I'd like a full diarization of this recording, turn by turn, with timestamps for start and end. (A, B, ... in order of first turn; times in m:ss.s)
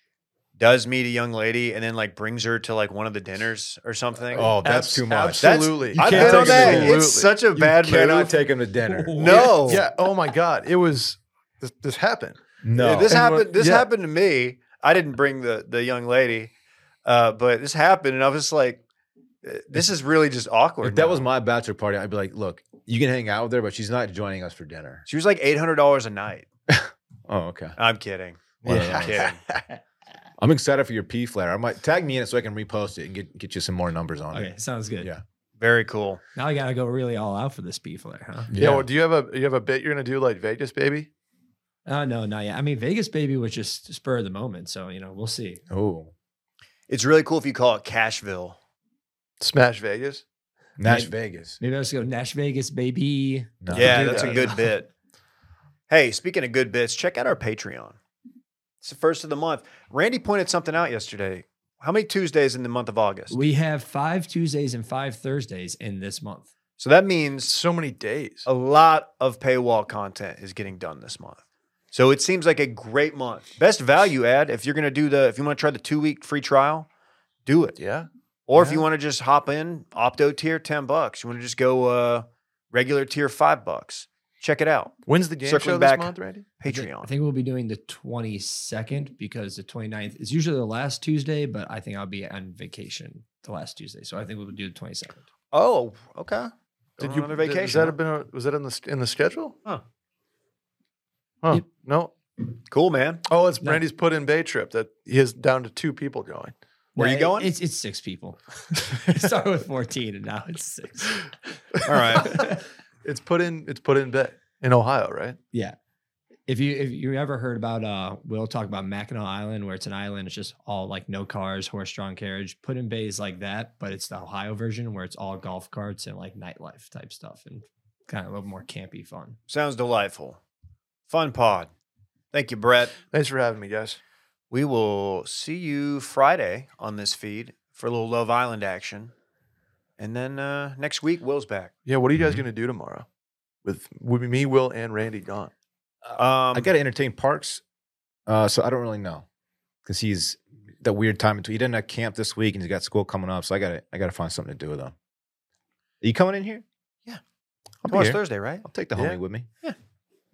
0:00.6-0:04.5 A
0:04.3-0:09.8 B
0:04.4-0:07.3 C
0:05.4-0:08.3 A
0:08.8-0:13.9 C
0:09.1-0:09.9 A
0:12.6-0:13.2 B
0:12.8-0:16.5 A
0:17.0-0:18.8 A
0:19.4-0:21.2 A
0:20.8-0:25.0 B
0:25.0-0:26.4 A
0:26.7-0:27.8 B
0:27.8-0:29.4 A
0:28.6-0:29.6 C
0:28.6-0:29.3 B
0:30.4-0:35.2 B
0:34.3-0:35.1 D
0:35.6-0:36.2 A
0:36.3-0:38.6 D
0:38.5-0:38.9 B
0:38.6-0:41.1 C
0:41.8-0:45.6 D
0:45.7-0:46.1 B
0:46.9-0:48.6 A
0:49.4-0:50.2 C
0:50.8-0:51.6 B
0:50.8-0:54.6 D
0:53.6-0:54.3 B
0:53.7-0:54.9 A
0:53.7-0:54.5 C
0:55.9-0:58.0 A
0:58.8-1:03.4 A
1:03.3-1:06.5 D
1:06.8-1:07.5 A
1:07.4-1:08.5 C
1:08.4-1:11.4 A
1:11.9-1:16.9 A
1:17.4-1:17.8 A
1:17.8-1:18.8 C
1:18.5-1:27.1 A
1:25.0-1:26.4 C
1:26.6-1:35.2 D
1:35.5-1:38.0 A
1:37.0-1:39.6 C
1:41.4-1:42.1 C
1:42.7-1:43.2 A
1:43.3-1:46.5 C
1:47.0-1:51.3 D
1:47.0-1:47.5 A
1:51.8-1:52.4 A
1:52.1-1:52.5 C
1:52.2-1:52.6 D
1:53.0-1:55.4 C
1:56.5-2:09.4 D
2:09.5-2:10.4 A
2:11.1-2:11.7 A
2:12.3-2:13.0 A
2:13.1-2:14.0 C
2:14.5-2:19.1 A
2:20.0-2:21.7 A
2:21.8-2:23.0 C
2:22.2-2:22.4 B
2:23.6-2:25.5 C
2:26.1-2:26.7 A
2:26.5-2:27.6 B
2:28.3-2:29.2 B
2:29.8-2:34.9 B
2:36.0-2:36.6 B
2:37.8-2:39.5 B
2:37.9-2:38.6 A